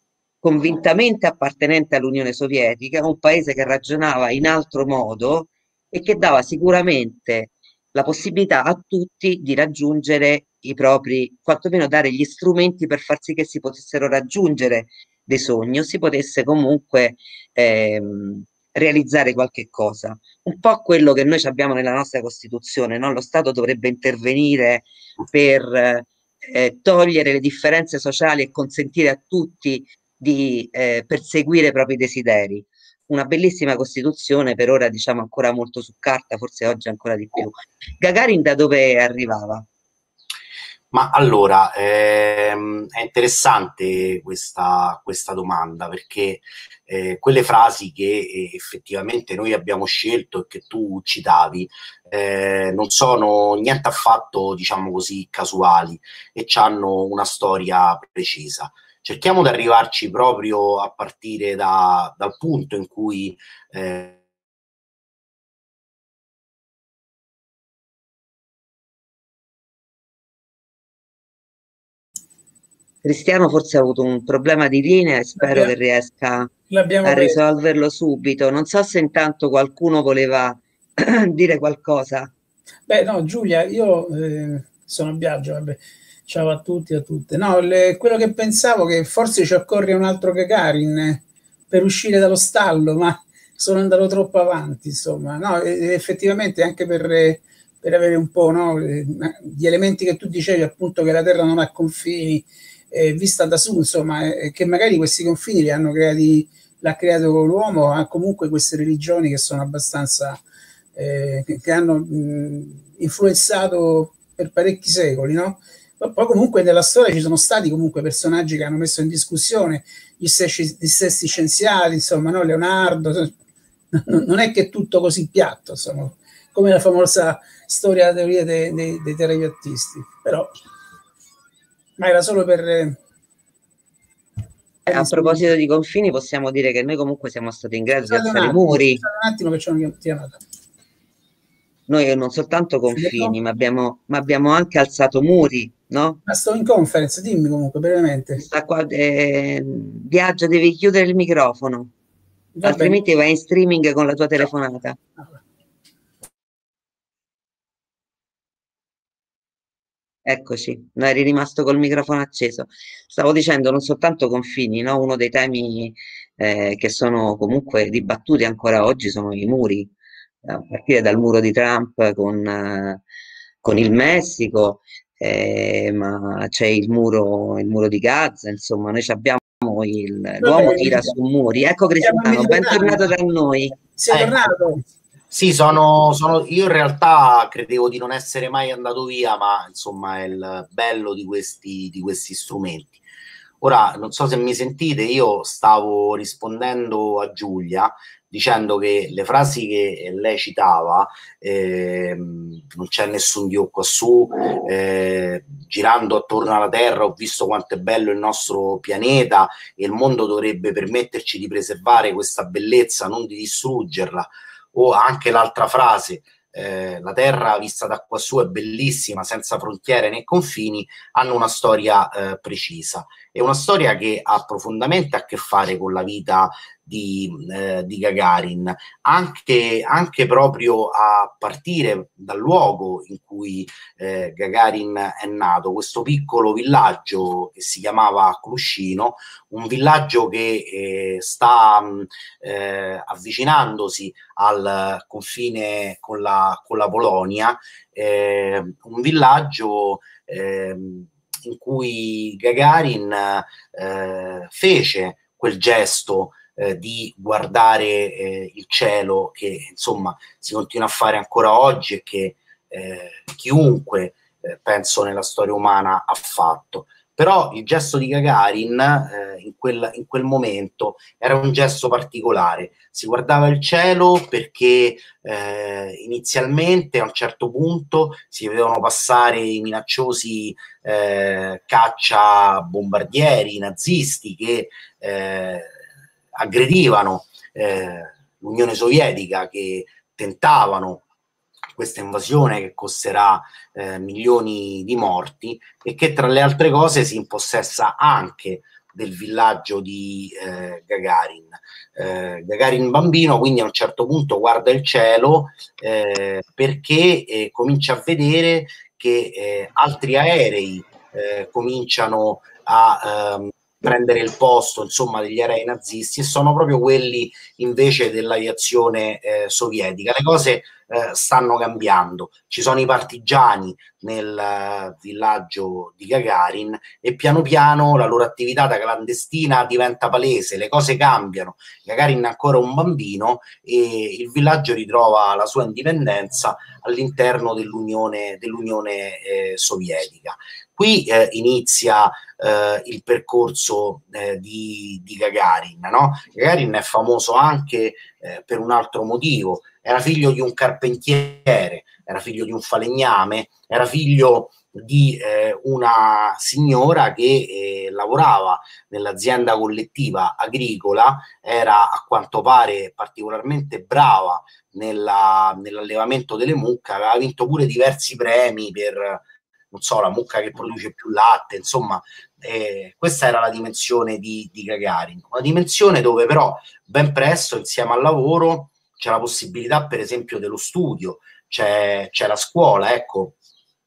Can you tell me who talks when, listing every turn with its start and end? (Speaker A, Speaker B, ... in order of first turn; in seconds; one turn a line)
Speaker A: 0.4-39.6
Speaker B: 40.9-64.2
Speaker A: 73.0-76.5
Speaker C: 75.4-75.7
Speaker C: 76.7-77.4
Speaker A: 77.0-82.3
Speaker C: 82.9-110.4
Speaker C: 111.0-123.3
Speaker C: 123.9-130.5
Speaker C: 132.0-133.0
Speaker A: 134.9-139.0
Speaker C: 134.9-135.4
Speaker C: 138.1-140.4
Speaker A: 141.9-146.2
Speaker C: 142.9-143.3
Speaker C: 146.3-148.4
Speaker A: 148.4-151.9
Speaker C: 152.6-153.0
Speaker A: 152.6-155.0
Speaker A: 160.3-169.9
Speaker A: 170.4-173.0
Speaker A: 173.6-183.8
Speaker C: 180.4-181.1
Speaker C: 182.0-183.1
Speaker C: 184.0-184.8
Speaker B: 184.1-184.5
Speaker B: 185.3-193.0
Speaker B: 193.6-285.7
Speaker B: 286.4-291.0
Speaker B: 291.8-383.4